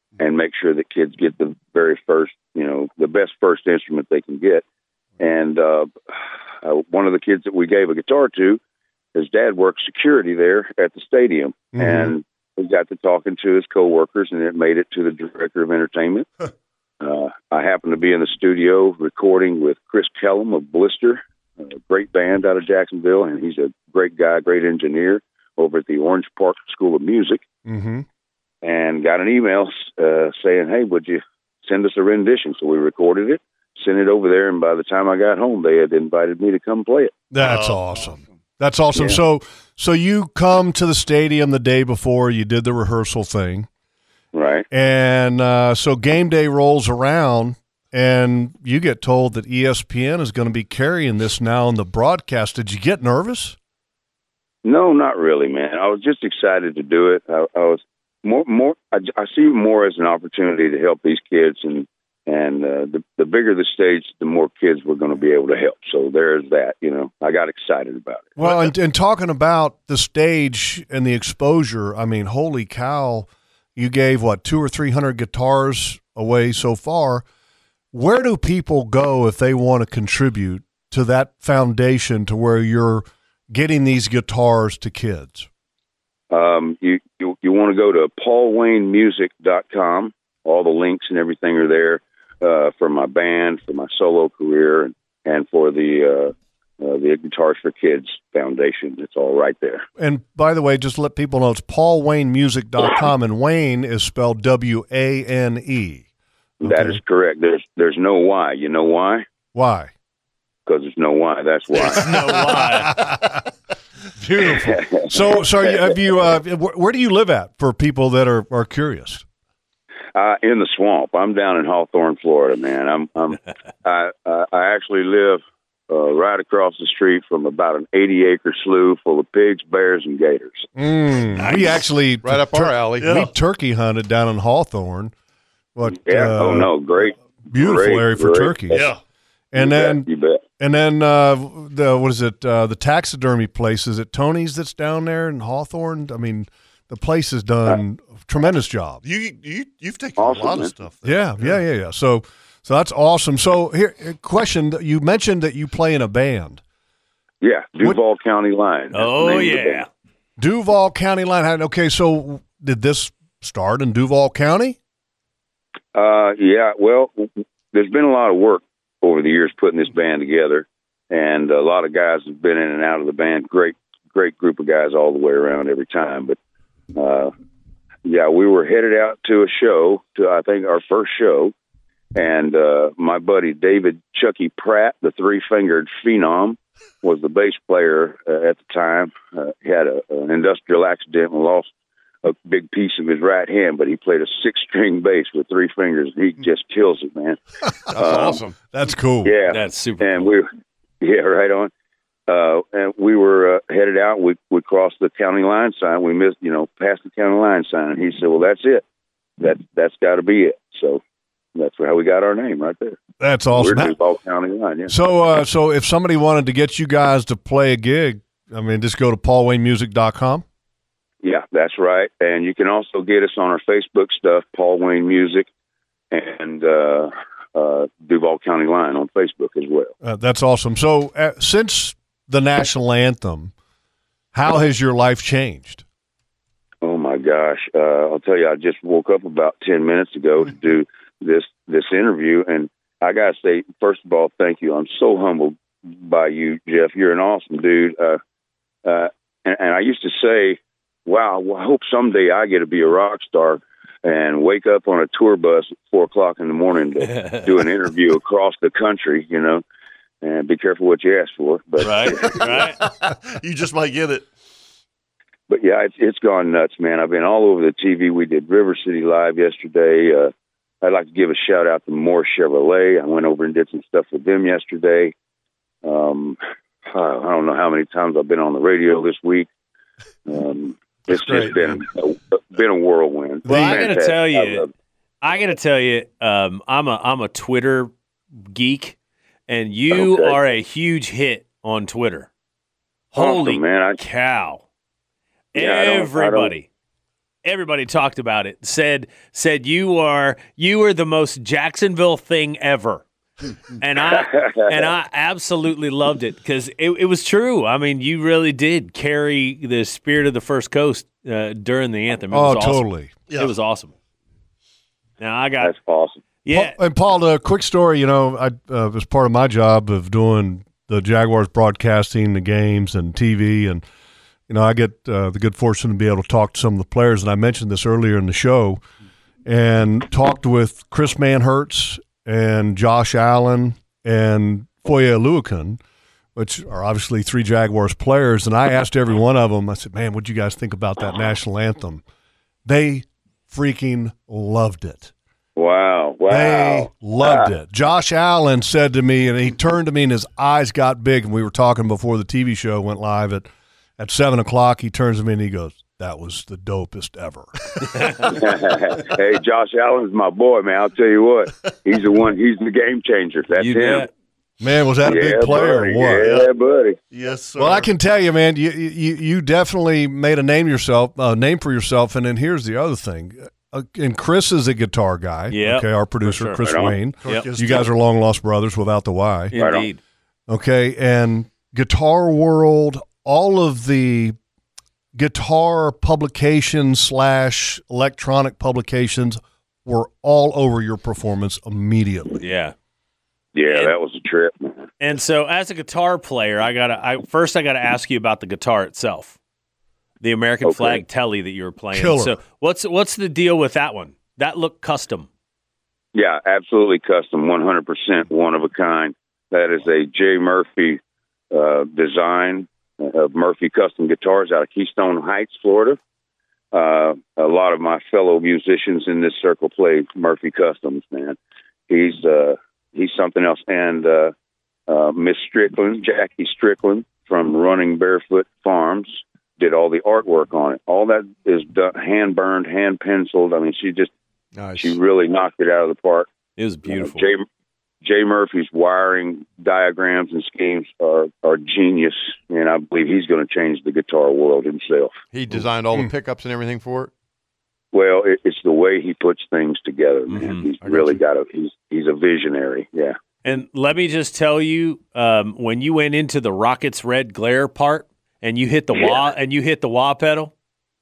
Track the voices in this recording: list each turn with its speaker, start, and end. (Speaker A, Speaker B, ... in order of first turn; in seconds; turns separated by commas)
Speaker A: 0.2-4.6, Speaker A: 5.2-6.0, Speaker A: 6.6-8.6, Speaker A: 9.1-16.3, Speaker B: 11.7-12.1, Speaker A: 17.0-27.4, Speaker B: 27.6-28.1, Speaker A: 28.6-37.2, Speaker B: 37.3-43.7, Speaker C: 37.4-37.8, Speaker A: 38.9-39.2, Speaker A: 44.3-44.7, Speaker B: 44.7-53.6, Speaker A: 54.6-68.3, Speaker B: 68.4-77.2, Speaker C: 68.4-68.7, Speaker B: 77.9-85.5, Speaker A: 86.3-99.8, Speaker B: 100.0-106.1, Speaker B: 106.6-107.0, Speaker A: 106.6-109.2, Speaker B: 109.5-109.9, Speaker A: 110.7-112.3, Speaker D: 111.7-113.0, Speaker B: 112.5-113.3, Speaker B: 114.2-119.2, Speaker A: 114.6-116.0, Speaker A: 120.1-130.7, Speaker B: 130.8-135.1, Speaker E: 132.2-133.2, Speaker C: 133.0-133.3, Speaker B: 135.8-136.7, Speaker A: 135.8-138.9, Speaker B: 137.5-138.9, Speaker C: 138.7-139.0, Speaker B: 139.5-140.1, Speaker A: 139.6-140.4, Speaker B: 140.6-149.0, Speaker C: 149.0-151.6, Speaker A: 150.2-150.7, Speaker B: 151.0-156.6, Speaker A: 157.4-159.8, Speaker D: 158.9-159.9, Speaker B: 160.4-164.8, Speaker A: 165.9-176.4, Speaker A: 176.9-177.3, Speaker A: 178.1-181.5, Speaker A: 182.1-191.7, Speaker A: 192.2-197.4, Speaker A: 197.9-198.4, Speaker E: 197.9-198.6, Speaker B: 198.0-199.3, Speaker A: 199.2-200.5, Speaker D: 199.5-200.3, Speaker A: 201.0-201.7, Speaker A: 202.3-208.8, Speaker A: 209.4-211.0, Speaker A: 211.6-213.0, Speaker B: 213.2-213.9, Speaker A: 213.5-214.9, Speaker B: 214.9-220.4, Speaker A: 221.2-225.5, Speaker A: 226.1-229.9, Speaker B: 230.0-233.5, Speaker B: 234.3-235.8, Speaker A: 236.8-248.2, Speaker A: 248.8-259.6, Speaker D: 257.0-257.6, Speaker A: 260.2-262.6, Speaker D: 261.8-262.8, Speaker C: 262.2-264.3, Speaker A: 265.5-275.1, Speaker A: 275.8-279.5, Speaker A: 280.3-284.7, Speaker E: 281.1-281.6, Speaker B: 283.4-283.9, Speaker D: 283.4-284.7, Speaker D: 285.2-287.9, Speaker D: 288.5-288.9, Speaker D: 289.5-292.3, Speaker A: 289.9-290.4, Speaker D: 293.1-294.6, Speaker A: 293.1-294.0, Speaker A: 295.6-296.5, Speaker D: 295.6-296.7, Speaker D: 297.4-303.0, Speaker D: 303.8-312.8, Speaker A: 304.1-304.9, Speaker B: 312.3-313.1, Speaker D: 313.3-313.9, Speaker D: 315.2-315.7, Speaker A: 315.6-316.2, Speaker D: 316.4-316.8, Speaker B: 316.5-323.8, Speaker B: 324.5-328.8, Speaker B: 329.4-335.8, Speaker B: 336.3-342.0, Speaker B: 342.6-345.1, Speaker A: 345.6-347.5, Speaker B: 346.3-357.5, Speaker D: 357.9-358.3, Speaker A: 358.2-364.1, Speaker D: 363.6-364.1, Speaker B: 364.6-366.4, Speaker A: 365.0-367.0, Speaker C: 366.2-366.5, Speaker C: 367.1-367.9, Speaker B: 367.6-379.6, Speaker D: 375.5-376.7, Speaker A: 376.6-377.0, Speaker C: 377.2-377.9, Speaker D: 379.5-380.0, Speaker A: 379.5-379.9, Speaker B: 380.5-384.4, Speaker B: 385.1-392.4, Speaker D: 392.4-392.7, Speaker A: 393.6-394.9, Speaker D: 393.7-393.9, Speaker D: 395.0-399.4, Speaker D: 400.2-405.3, Speaker A: 400.6-401.0, Speaker B: 401.9-402.4, Speaker A: 406.1-411.0, Speaker A: 411.5-416.0, Speaker A: 416.7-421.4, Speaker A: 421.9-424.3, Speaker A: 424.9-434.1, Speaker E: 434.6-435.0, Speaker A: 434.8-436.3, Speaker D: 436.6-437.3, Speaker A: 436.9-437.4, Speaker A: 438.0-445.1, Speaker E: 445.3-447.1, Speaker A: 447.9-453.1, Speaker D: 450.3-450.7, Speaker E: 450.8-451.2, Speaker D: 453.4-460.5, Speaker A: 458.9-459.2